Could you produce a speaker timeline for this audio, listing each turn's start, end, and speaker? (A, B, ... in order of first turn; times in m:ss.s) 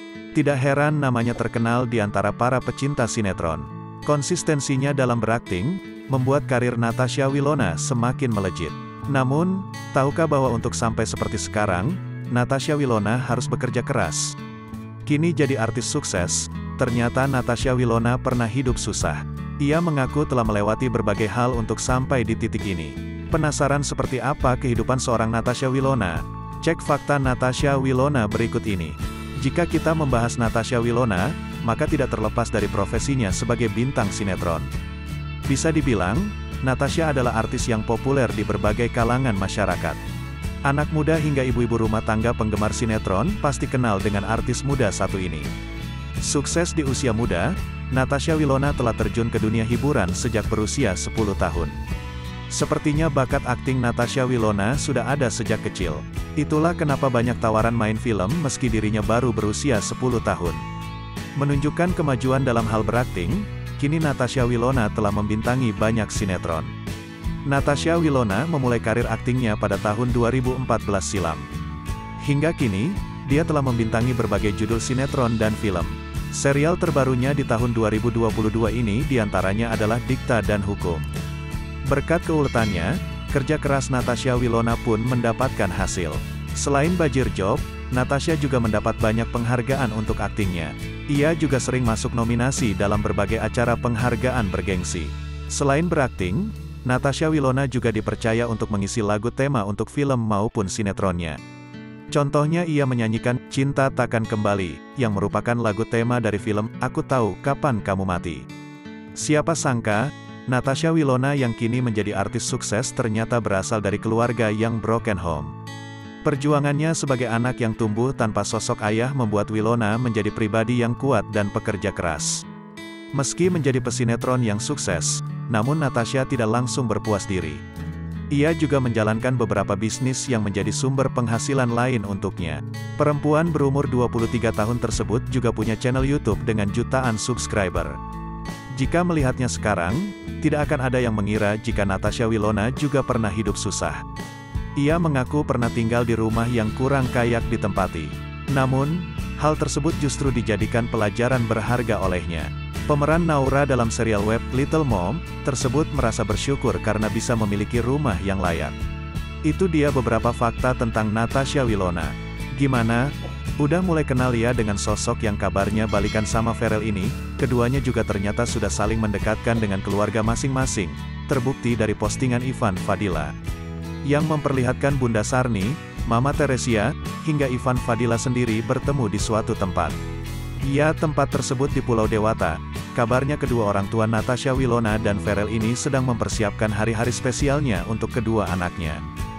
0:00.3-0:14.4 A
0:15.0-0:34.7 A
0:35.5-0:40.0 A
0:40.6-0:45.5 A
0:46.2-0:51.8 A
0:52.5-1:00.6 A
1:01.4-1:06.7 A
1:07.4-1:11.4 A
1:12.2-1:21.1 A
1:21.8-1:41.4 A
1:42.1-1:48.4 A
1:49.1-1:55.5 A
1:56.2-2:02.4 A
2:03.1-2:07.6 A
2:08.3-2:18.0 A
2:18.7-2:24.0 A
2:24.8-2:38.7 A
2:39.4-2:53.3 A
2:54.1-3:00.0 A
3:00.6-3:09.0 A